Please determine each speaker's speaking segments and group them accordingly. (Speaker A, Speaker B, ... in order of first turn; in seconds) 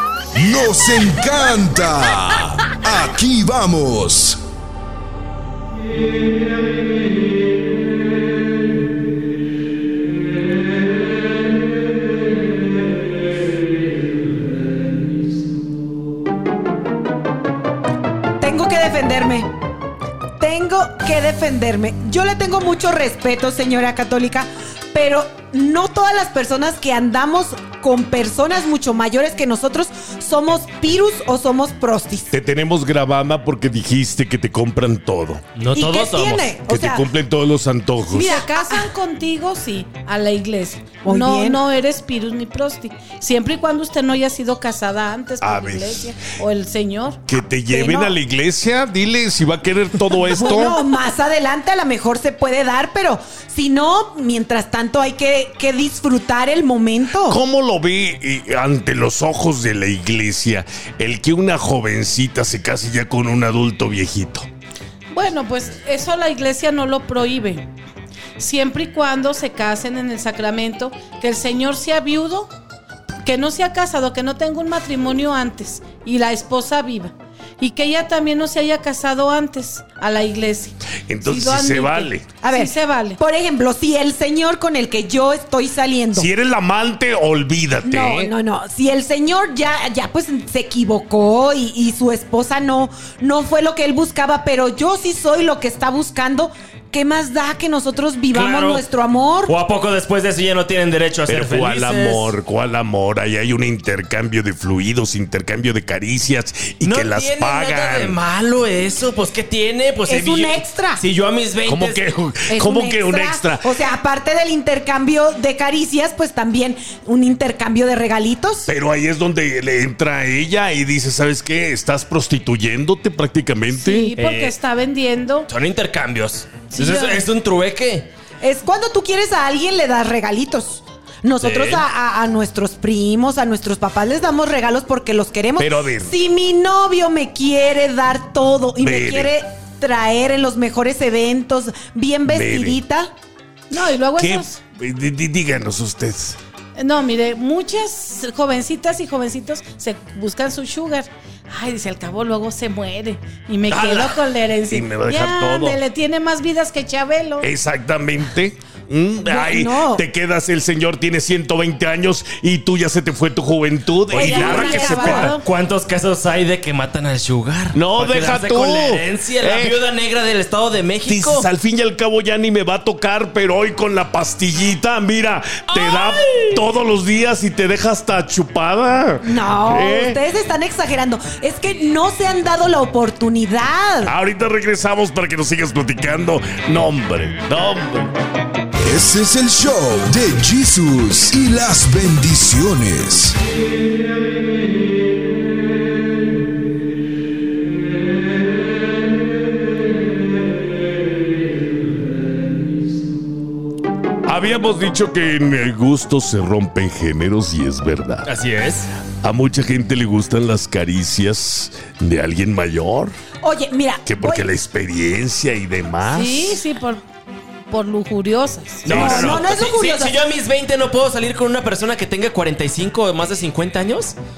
Speaker A: 0.3-4.4, 188.8-193.3
Speaker B: 18.4-19.5, 20.4-32.3, 35.7-37.1, 38.1-38.9, 41.0-41.6, 47.7-48.1, 50.3-57.4, 82.4-86.3, 87.8-99.5, 110.1-111.0, 112.5-118.7, 128.4-143.1, 159.2-160.0, 164.2-165.3, 179.2-184.1, 213.4-214.5, 218.9-220.2
Speaker C: 32.3-35.4, 36.7-38.3, 45.4-46.1, 47.3-50.8, 57.3-64.5, 81.1-82.3, 86.1-88.3, 101.3-108.2, 111.6-113.7, 118.7-124.1, 135.6-136.1, 138.8-139.3, 142.3-142.8, 144.2-146.4, 153.7-155.8, 157.4-165.3, 167.7-169.8, 171.0-180.2, 184.1-188.1, 204.2-208.3, 209.2-213.1, 214.1-216.6, 218.8-219.5
Speaker D: 35.6-36.5, 98.3-98.9, 99.5-102.3, 106.8-112.0, 124.2-124.5, 125.5-128.1, 131.4-131.8, 164.1-171.5, 175.7-176.6, 208.2-208.9, 218.8-224.2
Speaker E: 38.1-47.2, 65.1-67.7, 68.4-72.5, 73.2-83.2, 123.7-125.5, 126.7-127.3, 143.7-144.6, 146.8-157.5, 164.1-165.4, 216.0-217.0, 217.7-218.9